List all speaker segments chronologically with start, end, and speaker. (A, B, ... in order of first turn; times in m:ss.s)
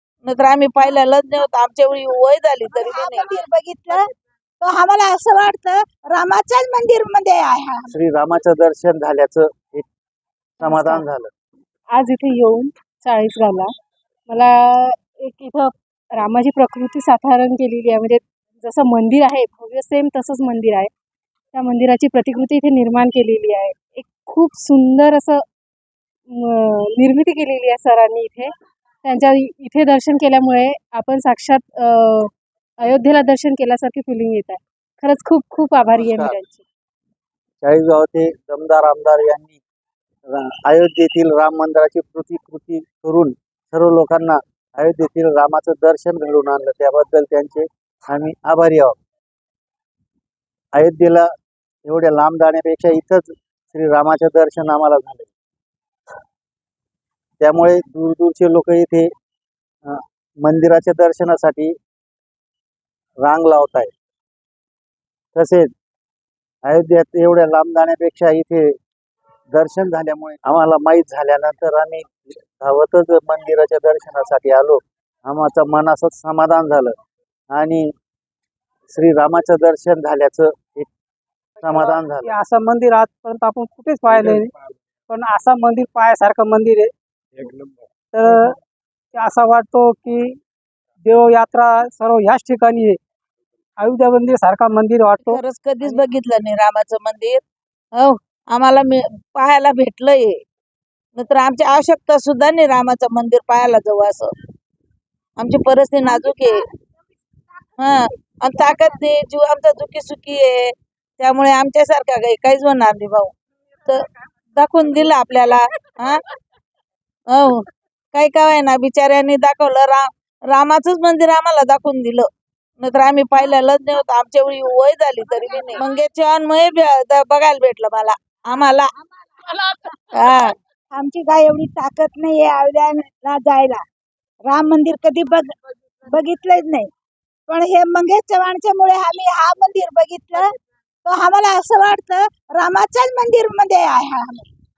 0:00.2-0:03.3 A
0:02.7-0:04.1 B
0:04.6-0:07.9 B
0:07.9-0:09.9 C
0:10.6-0:11.0 D
0:10.6-0:11.3 C
0:11.9-0:13.7 D
0:14.3-0:20.9 D
0:21.5-0:25.4 D
0:26.3-0:28.5 D
0:29.0-0:36.6 D
0:35.9-0:36.4 C
0:37.6-0:39.6 C
0:40.3-0:49.0 C
0:50.8-0:51.3 C
0:51.9-0:55.3 C
0:57.4-0:59.1 C
0:59.8-1:01.7 C
1:03.2-1:03.9 C
1:05.3-1:05.7 C
1:06.6-1:08.7 C
1:09.5-1:16.9 C
1:17.5-1:17.9 C
1:18.9-1:20.9 C
1:21.6-1:24.5 E
1:21.6-1:22.3 C
1:25.1-1:26.9 E
1:28.1-1:28.6 E
1:29.1-1:30.4 E
1:31.1-1:33.0 E
1:33.8-1:36.1 E
1:35.2-1:37.4 A
1:38.0-1:40.4 A
1:41.2-1:44.3 A
1:45.4-1:46.6 A
1:46.0-1:46.8 B
1:47.8-1:53.3 A
1:48.6-1:49.0 B
1:53.9-1:56.2 A
1:57.3-2:02.3 A
2:02.8-2:08.9 A
2:08.9-2:09.6 B
2:10.1-2:10.5 A
2:10.9-2:13.8 B
2:14.5-2:15.5 B
2:16.0-2:16.9 B
2:17.5-2:20.5 B
2:21.0-2:24.5 B